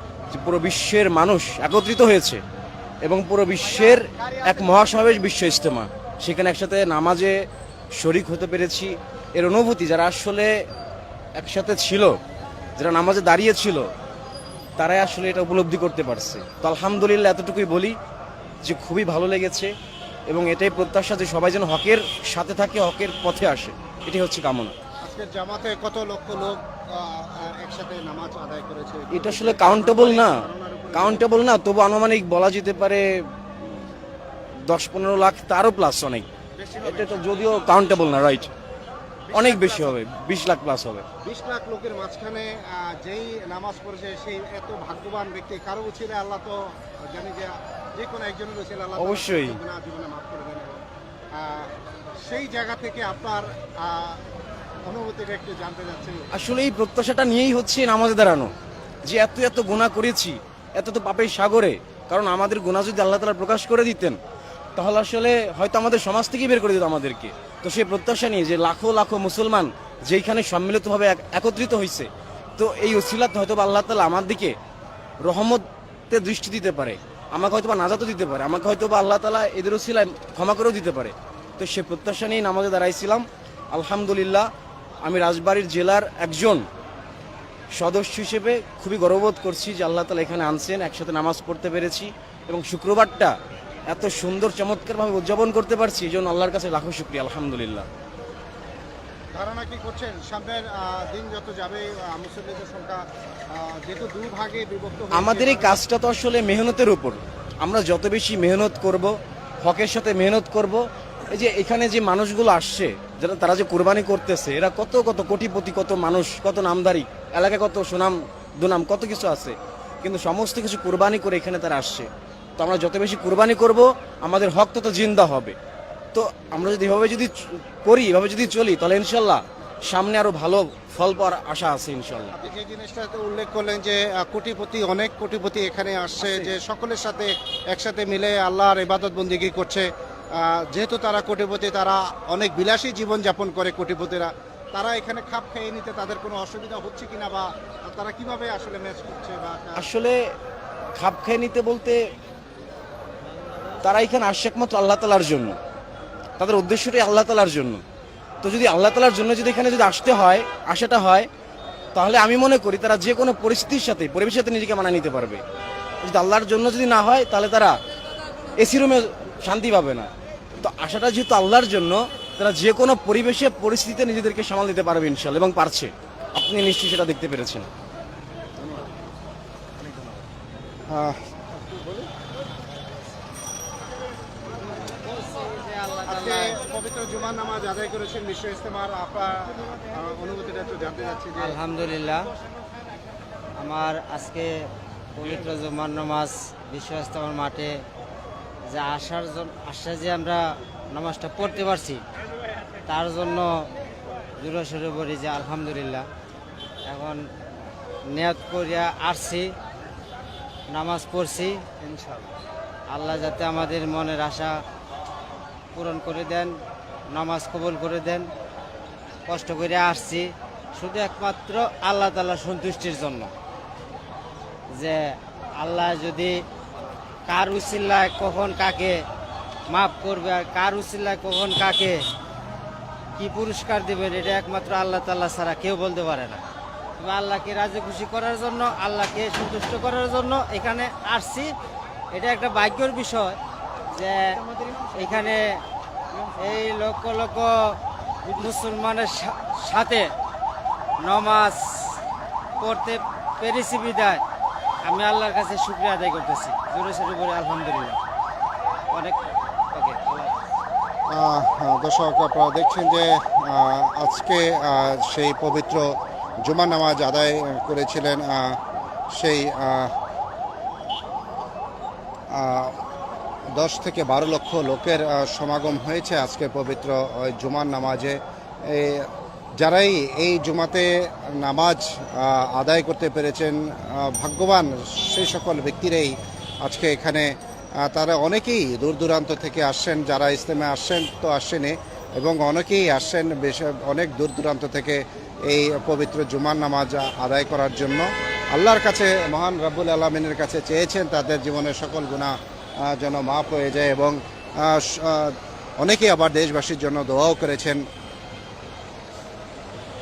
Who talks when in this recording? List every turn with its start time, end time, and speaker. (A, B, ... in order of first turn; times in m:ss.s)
0:00.3-0:02.4 A
0:03.0-0:07.4 A
0:08.0-0:10.5 A
0:11.4-0:12.2 A
0:12.8-0:13.9 A
0:14.8-0:18.0 A
0:18.6-0:19.7 A
0:20.3-0:24.7 A
0:25.0-0:31.4 B
0:29.1-0:30.4 A
0:30.9-0:33.0 A
0:34.6-0:38.5 A
0:39.3-0:41.0 A
0:39.3-0:39.8 B
0:41.2-0:50.8 B
0:49.0-0:49.6 A
0:51.4-0:54.2 B
0:54.8-0:56.3 B
0:56.3-0:58.5 A
0:59.1-1:04.2 A
1:04.8-1:14.6 A
1:15.2-1:24.5 A
1:25.0-1:26.6 A
1:27.8-1:33.4 A
1:33.9-1:37.9 A
1:39.4-1:45.8 B
1:45.1-1:49.1 A
1:49.6-2:05.6 A
2:06.2-2:12.3 A
2:12.3-2:29.9 B
2:16.2-2:16.5 A
2:29.8-2:30.2 A
2:31.0-2:32.0 A
2:33.8-2:35.6 A
2:36.4-2:37.8 A
2:38.4-2:41.3 A
2:42.0-2:45.4 A
2:46.0-2:47.8 A
2:48.6-2:50.1 A
2:50.6-2:57.7 A
2:58.6-2:59.0 B
2:59.8-3:00.2 B
3:00.9-3:02.0 B
3:04.7-3:06.6 C
3:06.1-3:11.6 B
3:11.4-3:12.3 C
3:13.6-3:17.8 C
3:18.7-3:22.0 C
3:22.9-3:23.6 C
3:24.4-3:26.1 C
3:26.9-3:27.2 C
3:28.1-3:29.5 C
3:30.7-3:31.6 C
3:32.9-3:34.6 C
3:35.8-3:36.6 C
3:37.1-3:38.3 C
3:39.3-3:43.3 C
3:44.8-3:46.4 C
3:47.3-3:49.0 C
3:49.7-3:52.0 C
3:53.2-3:56.4 C
3:57.0-4:01.5 C
4:02.2-4:03.4 C
4:04.0-4:04.4 C
4:04.9-4:05.6 C
4:06.4-4:07.5 C
4:08.3-4:10.1 C
4:11.0-4:12.0 C
4:12.6-4:14.2 C
4:14.9-4:18.0 C
4:18.9-4:20.2 C
4:21.1-4:25.9 B
4:26.4-4:28.6 B
4:29.1-4:29.9 B
4:32.3-4:32.8 B
4:33.5-5:07.9 B